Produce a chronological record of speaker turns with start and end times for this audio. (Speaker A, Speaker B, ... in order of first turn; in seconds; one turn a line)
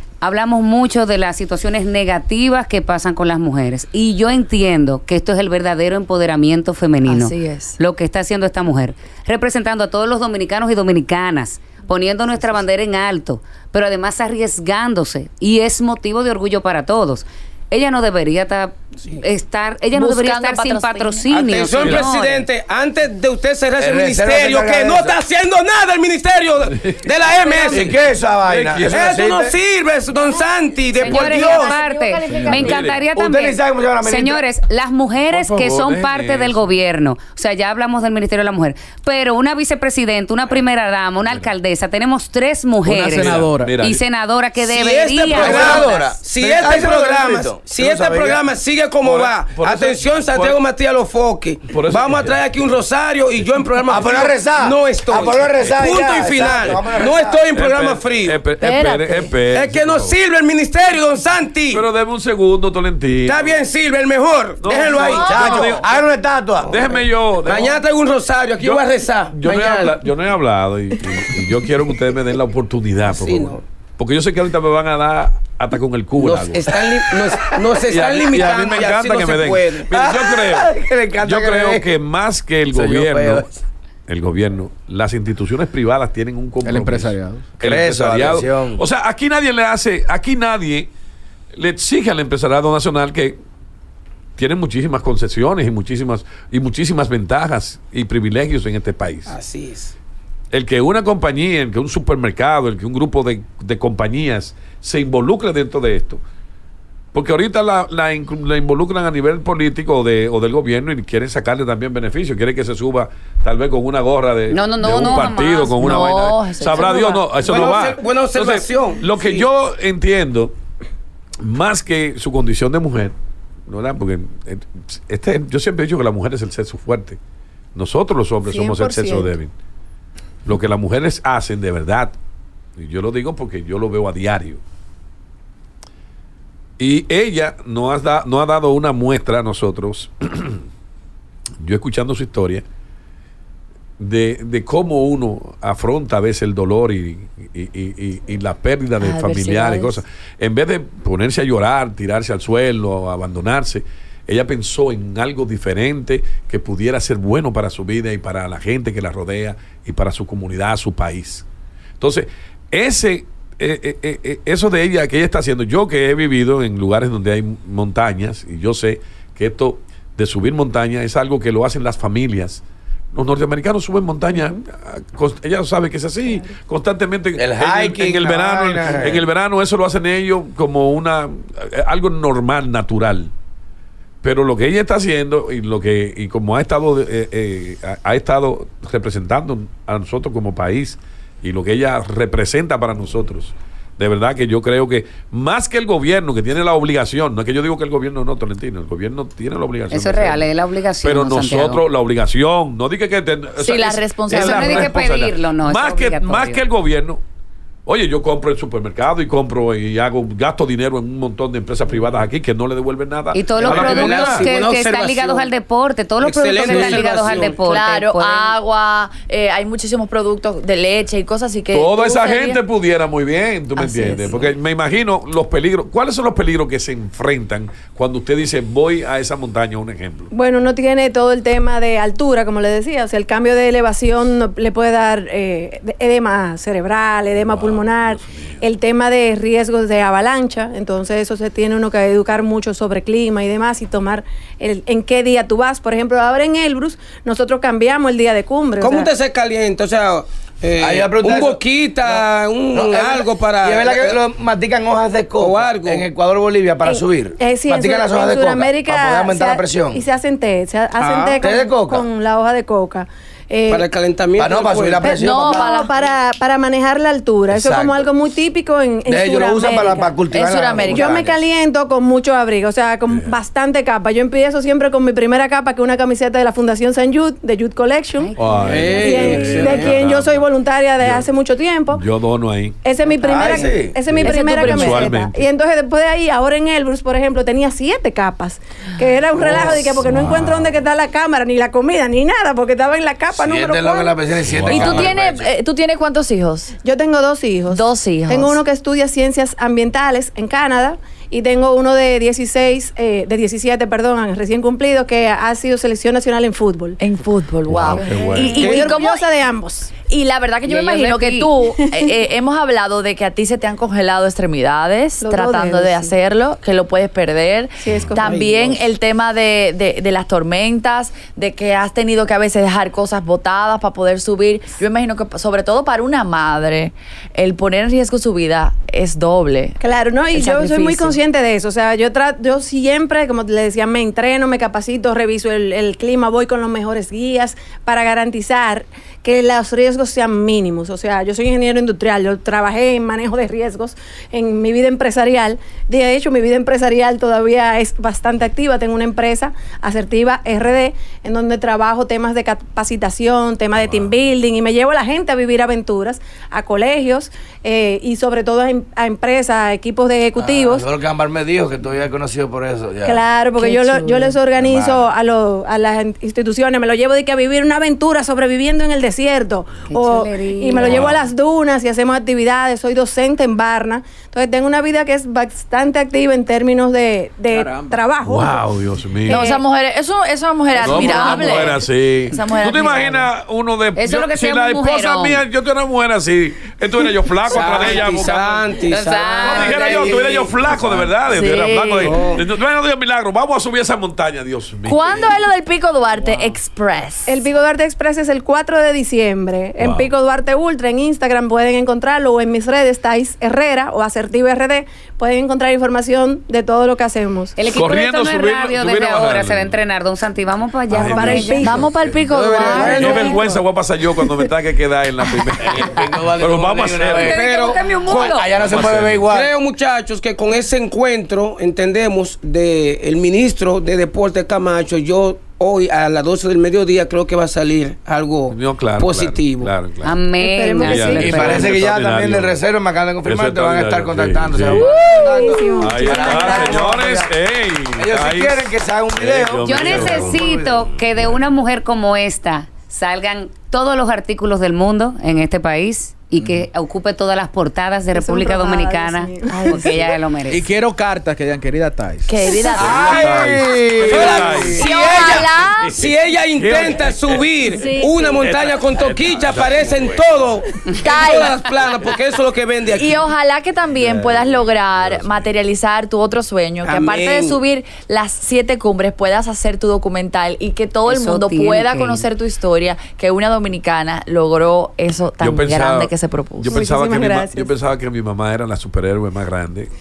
Speaker A: 0.2-22.5
Speaker B: 7.0-7.8
Speaker B: 19.9-21.3
Speaker C: 21.3-27.9
Speaker D: 21.8-22.1
Speaker E: 23.8-25.2
Speaker D: 26.8-27.1
Speaker E: 27.6-29.6
Speaker D: 27.7-29.1
Speaker C: 28.9-31.8
Speaker B: 31.0-32.9
Speaker A: 31.0-46.0
Speaker D: 32.4-33.1
Speaker E: 33.1-34.4
Speaker D: 35.3-36.7
Speaker D: 41.2-41.5
Speaker F: 42.9-43.7
Speaker D: 43.0-44.0
Speaker C: 44.6-58.4
Speaker E: 45.3-48.4
Speaker D: 49.0-50.6
Speaker D: 51.7-52.8
Speaker E: 53.9-57.5
Speaker D: 55.7-56.8
Speaker D: 57.5-60.1
Speaker B: 58.6-59.3
Speaker C: 59.5-61.9
Speaker D: 61.7-63.6
Speaker C: 63.2-65.8
Speaker D: 64.6-66.0
Speaker B: 64.9-65.6
Speaker E: 65.1-67.0
Speaker D: 66.7-67.8
Speaker C: 67.4-70.0
Speaker D: 68.6-76.7
Speaker C: 73.1-73.6
Speaker C: 76.2-79.9
Speaker D: 77.9-83.5
Speaker E: 79.9-81.9
Speaker E: 82.7-83.6
Speaker D: 84.1-90.9
Speaker F: 86.6-87.5
Speaker E: 87.6-88.8
Speaker D: 91.5-93.4
Speaker D: 94.4-99.4
Speaker C: 99.3-100.0
Speaker D: 100.5-106.2
Speaker D: 107.1-120.5
Speaker A: 114.5-116.1
Speaker B: 114.9-115.3
Speaker B: 115.8-117.2
Speaker C: 117.3-119.5
Speaker D: 121.4-123.2
Speaker D: 123.7-127.2
Speaker D: 127.8-129.5
Speaker G: 128.4-129.3
Speaker D: 130.5-132.2
Speaker D: 132.8-134.6
Speaker D: 136.8-140.7
Speaker D: 141.6-142.7
Speaker D: 144.0-161.5
Speaker B: 149.0-150.0
Speaker D: 162.0-172.6
Speaker D: 173.1-183.3
Speaker E: 177.4-179.3
Speaker D: 184.2-200.5
Speaker A: 199.9-201.8
Speaker D: 201.0-207.2
Speaker B: 203.6-205.0
Speaker A: 204.3-206.6
Speaker D: 207.9-214.5
Speaker A: 213.3-218.6
Speaker C: 213.6-215.5
Speaker C: 216.2-217.6
Speaker B: 217.5-222.6
Speaker D: 221.7-230.3
Speaker B: 223.8-224.5
Speaker G: 230.3-249.1
Speaker D: 237.4-238.6
Speaker C: 248.8-254.2
Speaker E: 250.8-252.2
Speaker E: 252.7-260.1
Speaker C: 255.4-256.1
Speaker G: 256.9-263.9
Speaker C: 261.0-261.4
Speaker E: 261.4-262.1
Speaker C: 263.7-265.2
Speaker E: 264.4-265.9
Speaker B: 265.1-265.9
Speaker G: 265.1-270.2
Speaker E: 267.5-268.1
Speaker E: 269.1-271.4
Speaker B: 270.3-271.1
Speaker G: 270.8-282.1
Speaker D: 273.1-273.4
Speaker A: 278.2-279.2
Speaker D: 278.4-280.4
Speaker C: 278.6-280.0
Speaker D: 281.0-281.3
Speaker D: 281.9-282.8
Speaker G: 282.8-294.2
Speaker E: 283.2-284.0
Speaker D: 284.0-285.4
Speaker B: 284.2-285.1
Speaker E: 289.3-290.0
Speaker D: 290.0-290.8
Speaker E: 293.3-295.5
Speaker D: 294.4-295.2
Speaker B: 294.7-296.8
Speaker G: 296.8-307.0
Speaker B: 297.7-298.6
Speaker B: 307.0-309.2
Speaker D: 307.7-308.9
Speaker G: 308.2-309.9
Speaker C: 308.6-308.9
Speaker B: 310.1-329.8
Speaker A: 310.7-311.4
Speaker G: 310.8-312.1
Speaker G: 315.2-316.1
Speaker G: 317.8-318.5
Speaker C: 318.2-318.8
Speaker G: 329.8-360.9
Speaker B: 330.3-331.2
Speaker D: 353.8-354.1
Speaker E: 360.4-363.2
Speaker G: 363.0-378.6
Speaker B: 363.6-364.4
Speaker E: 364.6-365.1
Speaker A: 369.9-371.1
Speaker D: 370.8-371.2
Speaker F: 377.5-378.0
Speaker D: 378.2-379.4
Speaker G: 379.3-379.6
Speaker B: 379.3-383.3
Speaker D: 380.8-388.8
Speaker A: 380.9-381.7
Speaker A: 384.0-385.4
Speaker C: 387.5-390.9
Speaker A: 388.9-390.3
Speaker D: 389.4-395.4
Speaker B: 391.3-392.2
Speaker C: 392.1-392.4
Speaker B: 394.9-397.4
Speaker D: 396.2-396.6
Speaker G: 397.3-407.6
Speaker D: 399.8-400.1
Speaker A: 407.6-411.8
Speaker D: 407.7-409.8
Speaker D: 410.9-417.4
Speaker G: 410.9-411.9
Speaker B: 411.6-413.4
Speaker E: 412.3-413.2
Speaker G: 412.8-413.4
Speaker C: 412.8-413.4
Speaker E: 415.6-417.5
Speaker A: 417.1-418.5
Speaker C: 417.2-418.4
Speaker E: 418.1-419.5
Speaker D: 418.6-419.2
Speaker C: 419.2-429.7
Speaker D: 428.5-430.2
Speaker A: 430.0-431.8
Speaker G: 430.4-431.7
Speaker D: 430.8-432.6
Speaker E: 431.2-437.3
Speaker D: 433.2-434.9
Speaker B: 434.8-435.3
Speaker G: 434.9-437.3
Speaker D: 435.8-440.4
Speaker E: 437.9-440.8
Speaker A: 439.6-450.6
Speaker D: 441.1-441.4
Speaker F: 446.4-446.7
Speaker G: 448.1-450.0
Speaker B: 449.5-450.1
Speaker F: 450.5-452.6
Speaker B: 452.3-453.3
Speaker C: 452.7-463.2
Speaker D: 452.8-457.5
Speaker E: 452.8-454.9
Speaker B: 454.2-455.9
Speaker G: 457.8-458.4
Speaker D: 458.2-460.6
Speaker B: 461.0-461.6
Speaker B: 462.9-476.8
Speaker D: 463.9-465.5
Speaker C: 466.8-467.6
Speaker A: 471.1-472.2
Speaker D: 475.4-479.9
Speaker G: 476.7-477.7